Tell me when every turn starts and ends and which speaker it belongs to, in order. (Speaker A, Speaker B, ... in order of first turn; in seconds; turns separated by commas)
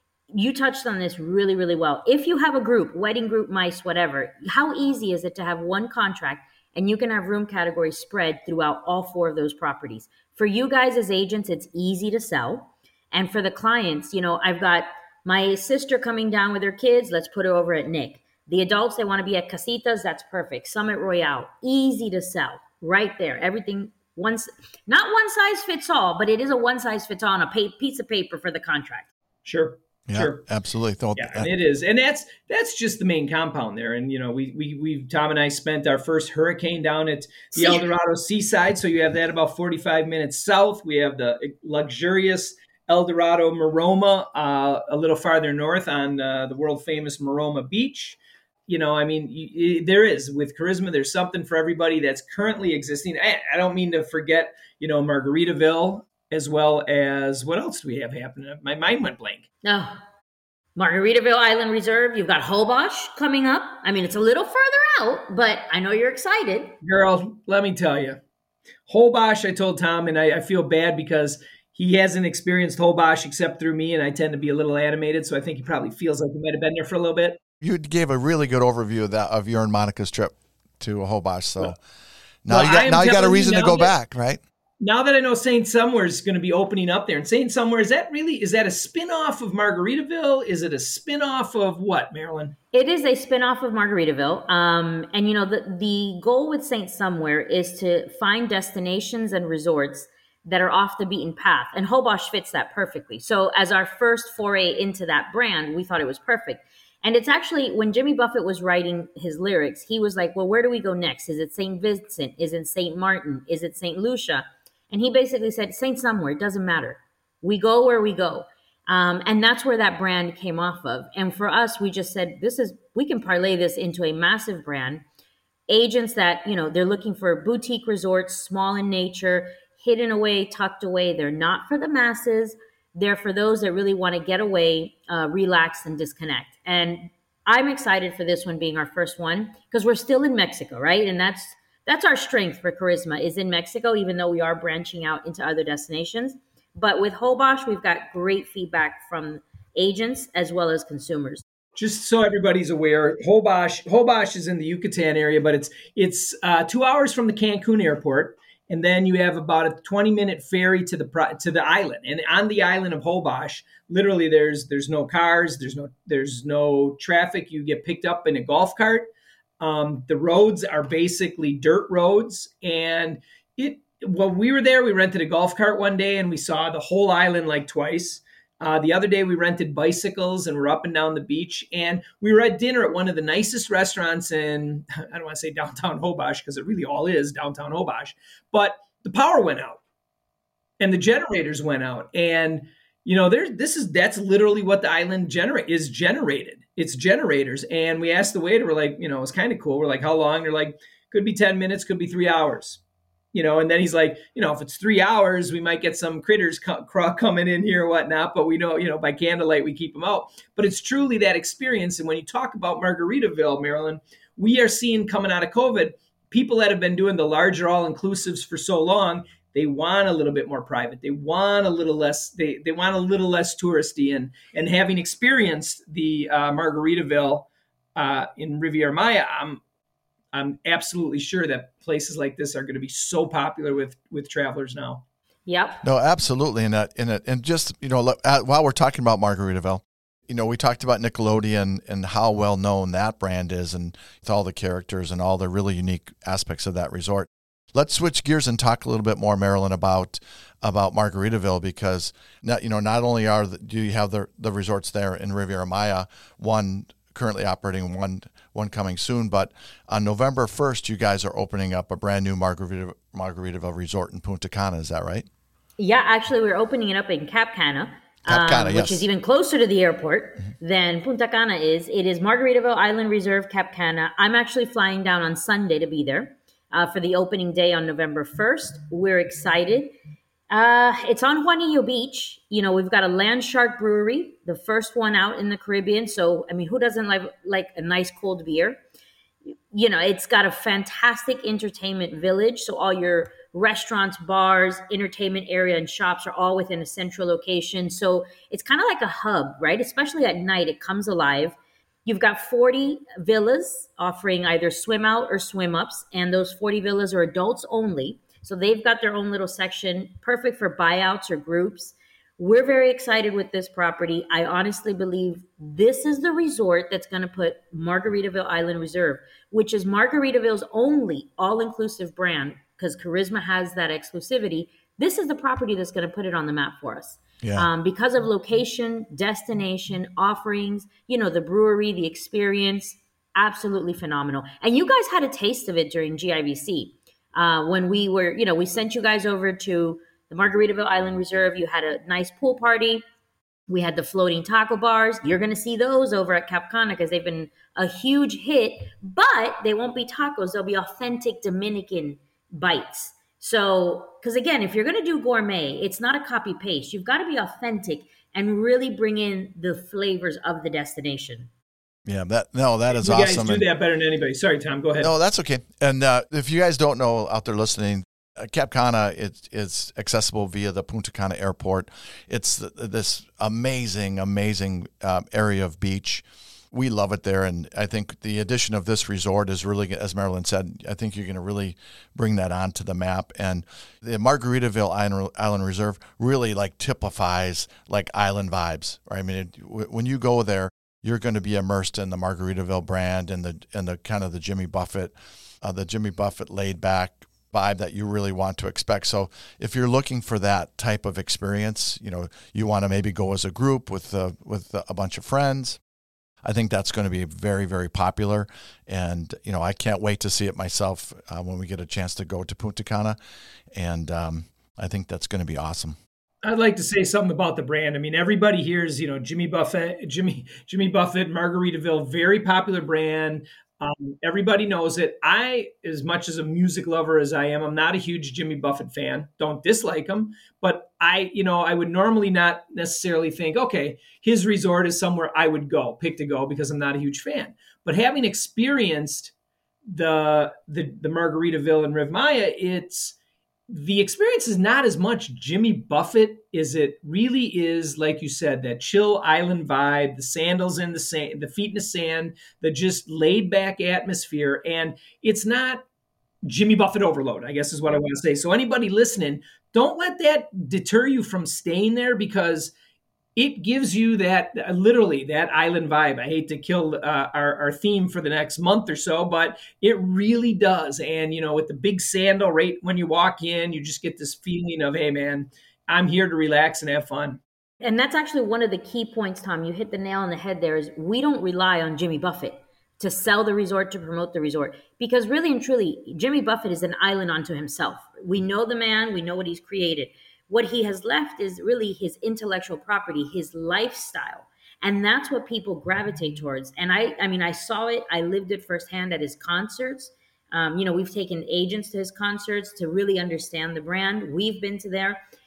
Speaker A: 0.3-29.1, Speaker B: 29.4-30.4, Speaker C: 30.1-31.5, Speaker B: 31.1-59.5, Speaker A: 37.5-37.8, Speaker A: 59.6-60.0, Speaker A: 60.8-66.8, Speaker B: 66.8-68.2, Speaker B: 68.9-77.4, Speaker C: 77.6-81.8, Speaker C: 82.4-84.4, Speaker B: 82.5-83.9, Speaker B: 84.8-92.6, Speaker A: 92.7-125.0, Speaker A: 125.7-151.4, Speaker B: 151.8-189.8, Speaker B: 190.8-202.8, Speaker B: 203.3-229.6, Speaker B: 230.3-235.0, Speaker A: 235.5-235.8, Speaker C: 235.8-265.3, Speaker A: 265.8-279.9, Speaker C: 268.3-269.1, Speaker A: 280.5-288.8, Speaker A: 289.7-343.0, Speaker C: 327.4-327.7, Speaker A: 343.7-361.5, Speaker C: 362.1-363.6, Speaker B: 362.9-365.1, Speaker C: 365.0-405.8, Speaker C: 406.4-413.2, Speaker C: 413.7-416.0, Speaker B: 416.4-439.3, Speaker B: 439.9-443.1, Speaker B: 443.7-455.8, Speaker B: 456.4-462.7, Speaker B: 463.4-477.4, Speaker A: 477.8-505.2